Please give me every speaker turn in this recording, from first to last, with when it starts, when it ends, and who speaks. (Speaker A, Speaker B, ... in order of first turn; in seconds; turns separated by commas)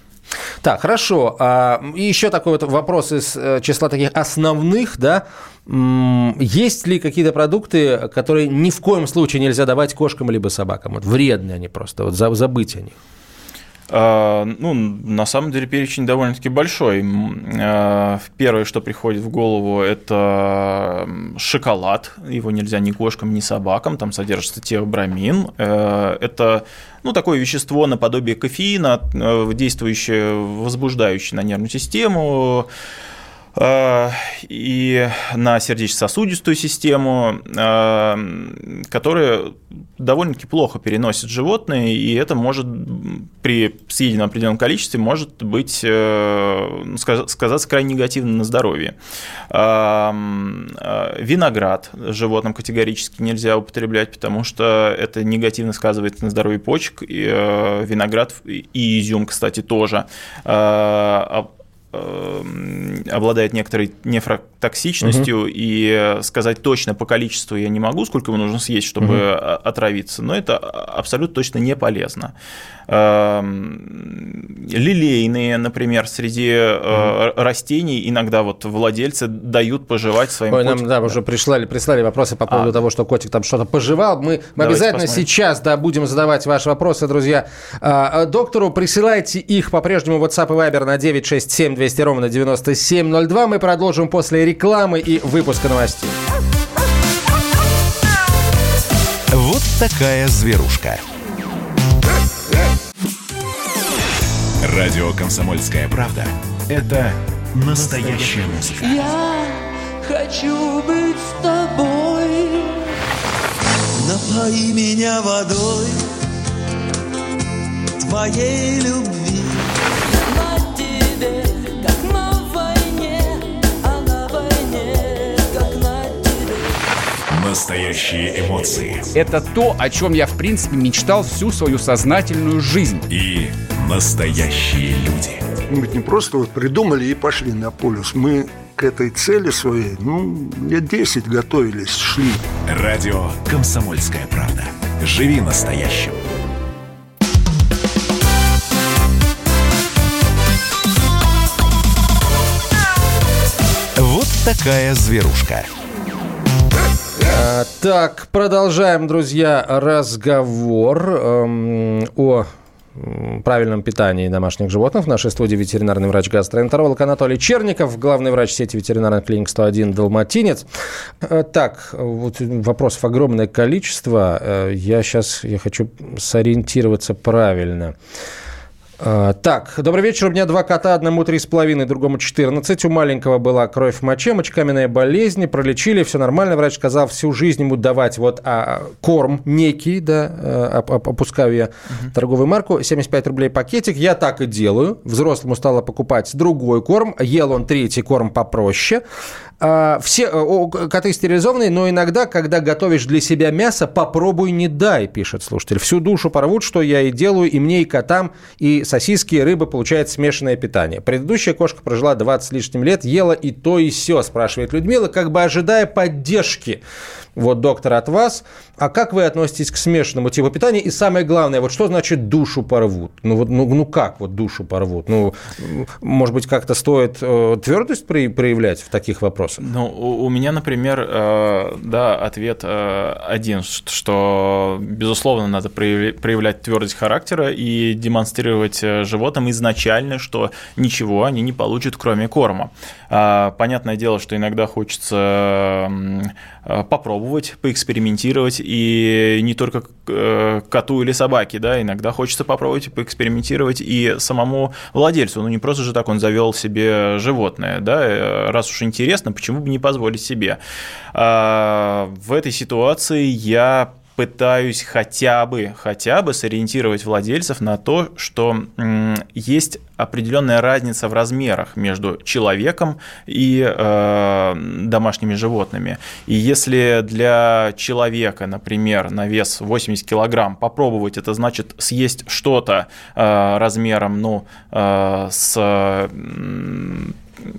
Speaker A: 0.6-13.0, Speaker B: 13.9-32.7, Speaker B: 33.6-48.9, Speaker B: 49.5-72.3, Speaker A: 65.0-65.3, Speaker B: 72.9-81.2, Speaker A: 80.5-96.2, Speaker B: 82.5-82.8, Speaker B: 84.6-85.3, Speaker C: 99.3-101.0, Speaker C: 104.6-109.1, Speaker D: 108.8-112.9, Speaker D: 114.0-116.1, Speaker D: 118.0-119.6, Speaker D: 120.3-126.7, Speaker C: 127.3-129.1, Speaker E: 129.2-133.1, Speaker C: 133.1-135.4, Speaker F: 135.7-142.4, Speaker C: 142.7-146.2, Speaker C: 154.0-155.7, Speaker A: 157.2-170.7, Speaker A: 171.2-177.9, Speaker A: 179.0-199.0, Speaker A: 199.6-216.8, Speaker A: 217.4-229.6, Speaker B: 229.6-260.6, Speaker B: 261.1-287.2